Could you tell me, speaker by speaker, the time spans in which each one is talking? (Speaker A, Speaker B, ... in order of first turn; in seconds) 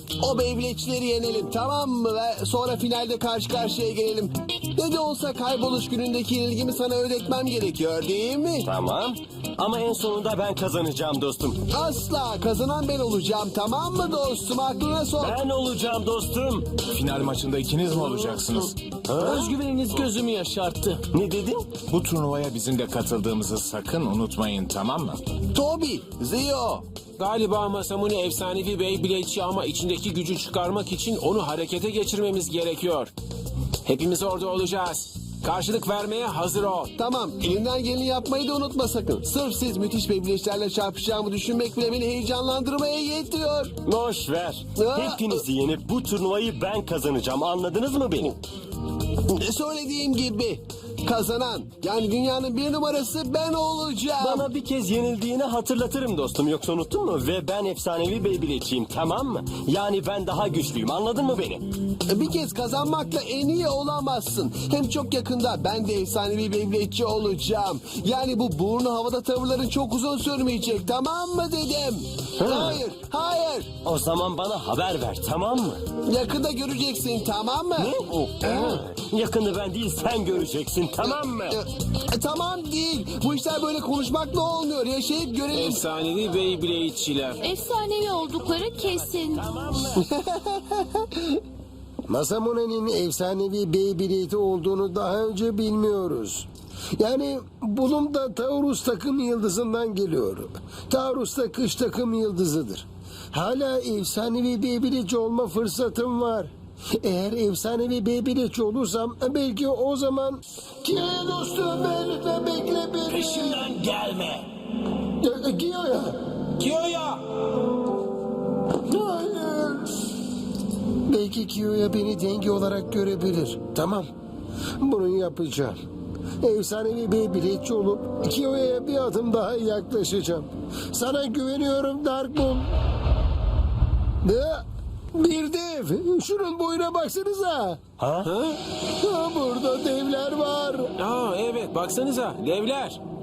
Speaker A: 0.2-8.7, 11.7-15.4, 25.5-26.8, 37.0-43.7, 44.7-45.4, 49.3-54.5, 62.1-73.7, 76.0-77.9, 78.4-78.8, 81.0-85.8, 89.9-91.4
Speaker B: 8.6-11.7, 15.2-16.9, 18.1-18.4, 19.1-19.4, 21.1-21.8, 43.8-48.4, 54.2-61.6, 72.4-72.8, 73.8-75.8, 77.8-81.6, 89.0-90.0, 138.0-138.3
Speaker C: 16.9-18.7, 21.8-25.2
Speaker D: 19.1-21.0, 27.2-33.1, 33.9-36.9, 85.5-87.4, 116.6-117.2, 138.2-138.6, 141.0-143.0
Speaker E: 87.4-89.5
Speaker F: 92.1-113.8, 115.2-116.1, 118.9-120.0, 121.1-124.1, 124.8-125.8, 126.4-132.8, 134.2-134.6, 135.2-137.8, 139.0-140.9